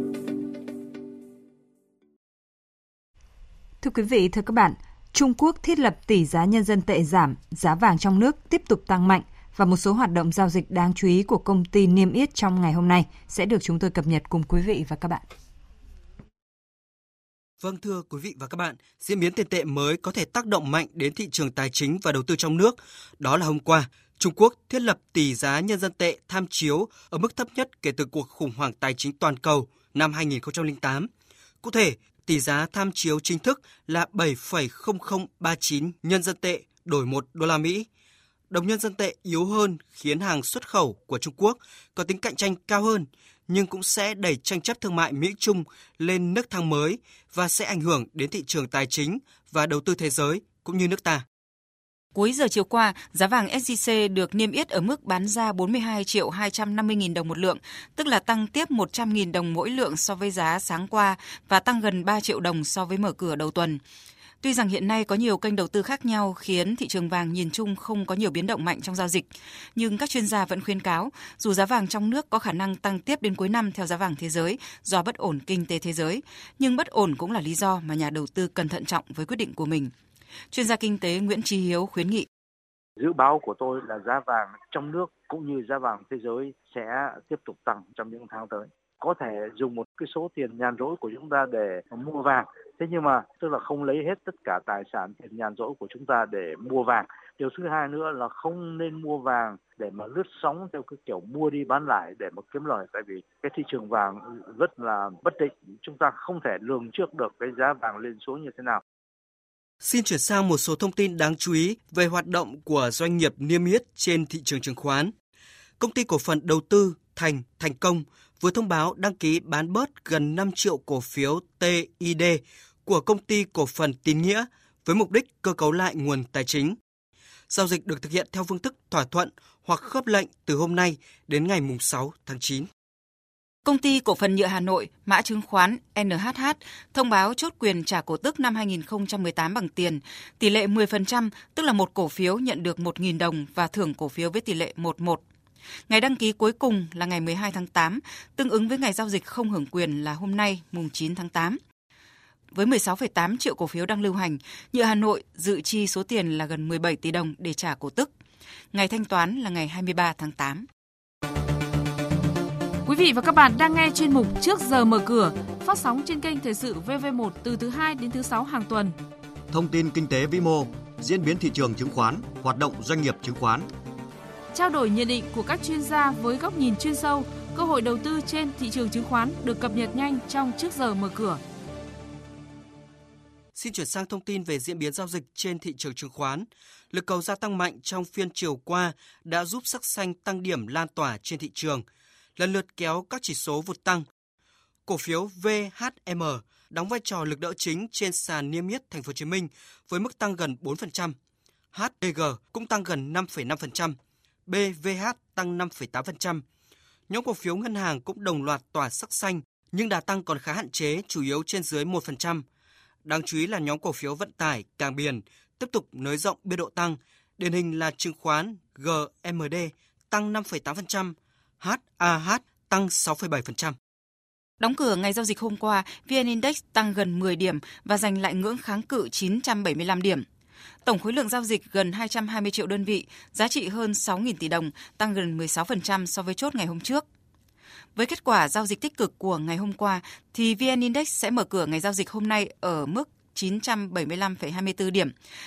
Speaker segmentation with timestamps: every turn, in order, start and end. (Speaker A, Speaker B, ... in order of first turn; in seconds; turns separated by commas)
Speaker A: 3.8-15.3, Speaker B: 17.6-31.1, Speaker B: 31.6-37.9, Speaker B: 38.5-51.2, Speaker C: 52.1-63.8, Speaker C: 64.4-79.9, Speaker C: 80.5-82.3, Speaker D: 83.0-108.8, Speaker B: 109.8-115.1, Speaker B: 115.8-126.8, Speaker B: 127.5-132.7, Speaker C: 133.6-145.2, Speaker C: 145.9-151.6, Speaker C: 152.5-158.1, Speaker C: 158.7-160.7, Speaker E: 162.9-169.0, Speaker F: 169.5-173.7, Speaker E: 174.5-181.4, Speaker B: 183.6-191.8, Speaker B: 192.4-194.1, Speaker B: 194.9-201.2, Speaker B: 201.7-203.9, Speaker B: 204.5-206.4, Speaker B: 207.1-212.4, Speaker B: 213.1-223.8, Speaker C: 224.6-230.2, Speaker C: 230.8-237.0, Speaker C: 237.9-245.1